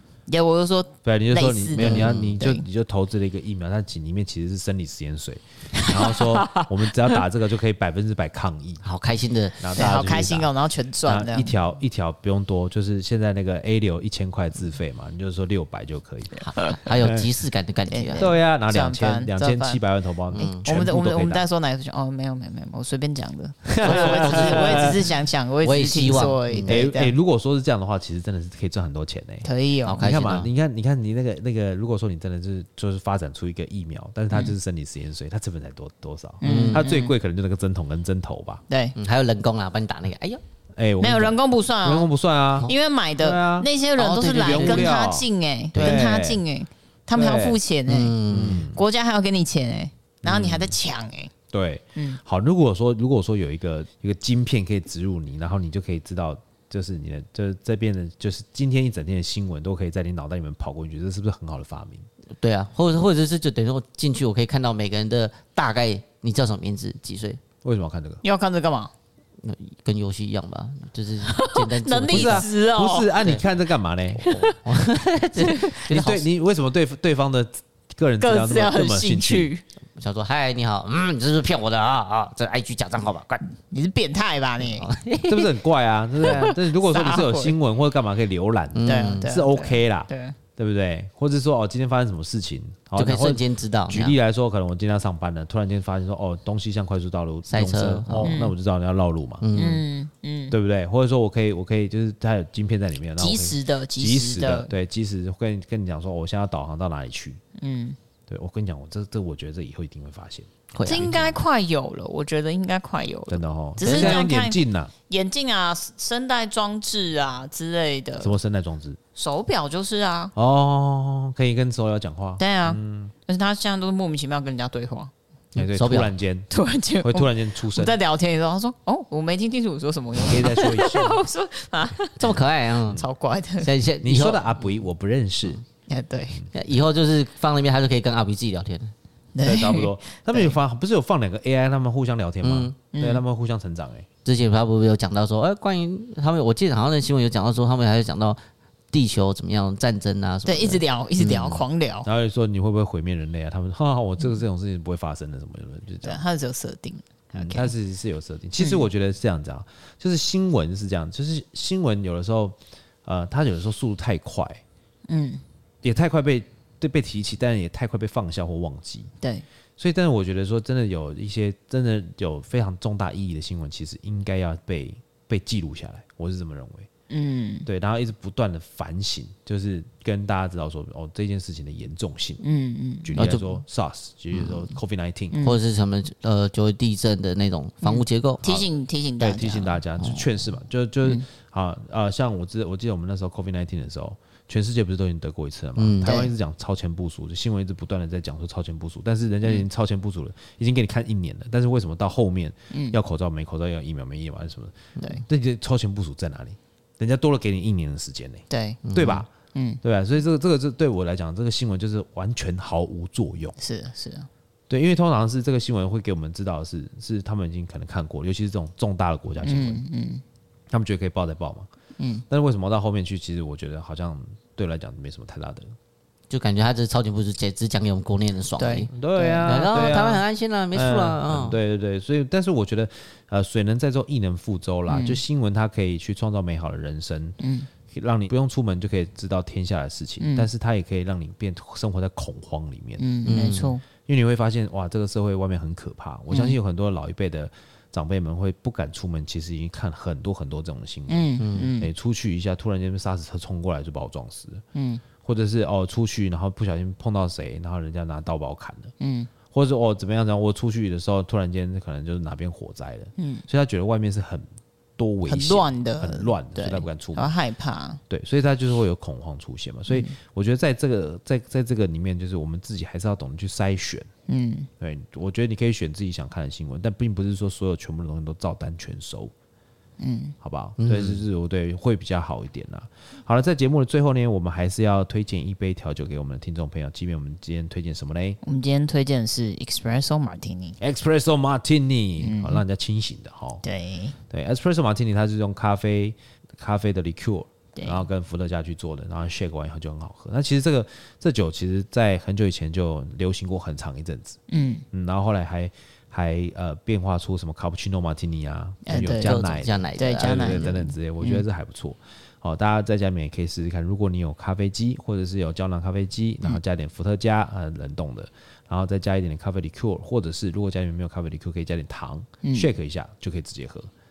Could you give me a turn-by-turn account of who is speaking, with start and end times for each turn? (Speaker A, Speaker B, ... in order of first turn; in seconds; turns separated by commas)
Speaker A: 0.3-2.6, Speaker B: 1.0-8.8, Speaker C: 1.8-2.4, Speaker A: 5.7-7.2, Speaker C: 8.8-9.7, Speaker B: 9.6-10.5, Speaker A: 9.7-11.5, Speaker B: 11.0-17.3, Speaker C: 16.4-18.3, Speaker A: 17.9-19.8, Speaker B: 18.2-21.4, Speaker C: 20.3-20.6, Speaker A: 20.6-27.1, Speaker B: 23.7-25.0, Speaker C: 23.9-24.9, Speaker C: 25.6-26.8, Speaker B: 26.7-38.6, Speaker A: 29.4-30.1, Speaker C: 29.9-30.5, Speaker A: 36.4-37.1, Speaker C: 36.4-36.9, Speaker A: 38.7-38.9, Speaker C: 39.0-40.4, Speaker B: 40.8-46.4, Speaker A: 41.0-42.1, Speaker A: 42.6-51.3, Speaker C: 44.0-45.0, Speaker C: 45.7-46.0, Speaker B: 47.1-47.6, Speaker C: 47.9-48.7, Speaker B: 48.3-48.8, Speaker B: 50.2-50.7, Speaker B: 51.5-62.0, Speaker C: 62.4-67.4, Speaker B: 67.6-68.2, Speaker A: 68.2-68.9, Speaker C: 69.4-72.5, Speaker A: 71.3-73.1, Speaker B: 72.1-74.2, Speaker A: 74.2-74.6, Speaker C: 74.2-76.2, Speaker A: 75.4-75.8, Speaker B: 75.9-79.5, Speaker A: 78.2-79.6, Speaker C: 80.0-83.5, Speaker A: 83.7-84.9, Speaker C: 84.6-85.5, Speaker B: 85.2-99.4, Speaker A: 86.2-87.5, Speaker C: 88.7-89.3, Speaker A: 88.8-90.4, Speaker C: 93.0-94.2, Speaker C: 97.5-98.4, Speaker A: 98.2-98.5, Speaker C: 99.4-99.8, Speaker A: 99.5-100.5, Speaker B: 100.5-107.4, Speaker A: 103.2-104.7, Speaker A: 107.6-108.0, Speaker B: 108.3-111.4, Speaker C: 110.7-111.0, Speaker A: 110.8-118.3, Speaker B: 113.3-114.9, Speaker C: 113.8-114.2, Speaker B: 118.2-119.0, Speaker A: 119.1-120.3, Speaker B: 120.3-123.1, Speaker A: 122.4-125.1, Speaker B: 125.5-126.5, Speaker C: 125.5-126.1, Speaker A: 126.5-132.2, Speaker B: 127.0-128.0, Speaker B: 130.2-131.2, Speaker C: 132.2-133.0, Speaker A: 132.9-133.7, Speaker C: 133.6-134.5, Speaker B: 134.0-135.6, Speaker A: 135.9-136.4, Speaker C: 136.5-138.9, Speaker A: 139.3-140.5, Speaker B: 139.4-144.1, Speaker C: 142.4-142.7, Speaker A: 142.9-143.2, Speaker C: 144.2-148.4, Speaker C: 148.9-151.6, Speaker A: 150.4-152.1, Speaker B: 152.1-156.2, Speaker A: 156.0-157.7, Speaker B: 157.3-164.6, Speaker A: 158.6-158.8, Speaker A: 165.1-165.4, Speaker B: 165.8-169.1, Speaker B: 169.8-176.9, Speaker A: 177.1-177.7, Speaker B: 177.7-182.4, Speaker A: 182.4-183.2, Speaker B: 183.0-185.4, Speaker C: 183.2-183.6, Speaker A: 185.3-185.6, Speaker C: 185.4-188.6, Speaker A: 187.8-190.3, Speaker B: 189.2-209.3, Speaker C: 195.8-196.2, Speaker A: 196.0-196.3, Speaker A: 202.7-203.0, Speaker A: 208.5-208.8, Speaker C: 208.8-209.2, Speaker A: 209.5-209.8, Speaker B: 209.8-213.6, Speaker A: 213.6-214.3, Speaker B: 214.7-219.8, Speaker A: 219.4-220.2, Speaker B: 220.7-221.7, Speaker A: 222.0-222.2, Speaker B: 222.3-225.7, Speaker C: 226.3-231.6, Speaker A: 228.6-230.0, Speaker B: 228.9-237.4, Speaker A: 234.9-235.2, Speaker A: 237.4-237.7, Speaker B: 237.9-254.6, Speaker A: 240.2-240.5, Speaker A: 243.0-243.8, Speaker C: 243.2-243.7, Speaker A: 246.3-246.6, Speaker A: 251.1-251.9, Speaker C: 251.4-251.7, Speaker A: 254.7-255.0, Speaker B: 255.2-258.9, Speaker A: 259.0-259.3, Speaker B: 259.5-264.5, Speaker A: 263.2-263.4, Speaker B: 265.0-267.3, Speaker A: 265.3-268.0, Speaker B: 268.1-274.1, Speaker A: 269.9-270.1, Speaker A: 274.3-274.7, Speaker B: 274.8-279.3, Speaker A: 280.0-280.3, Speaker B: 280.4-288.4, Speaker C: 280.8-281.2, Speaker A: 288.4-290.8, Speaker B: 290.8-293.6, Speaker A: 292.2-292.6, Speaker A: 293.6-294.1, Speaker B: 294.3-304.4, Speaker A: 297.8-298.1, Speaker A: 304.5-304.8, Speaker B: 304.9-323.9, Speaker A: 308.9-309.4, Speaker C: 309.2-310.7, Speaker A: 310.0-311.4, Speaker A: 322.4-322.7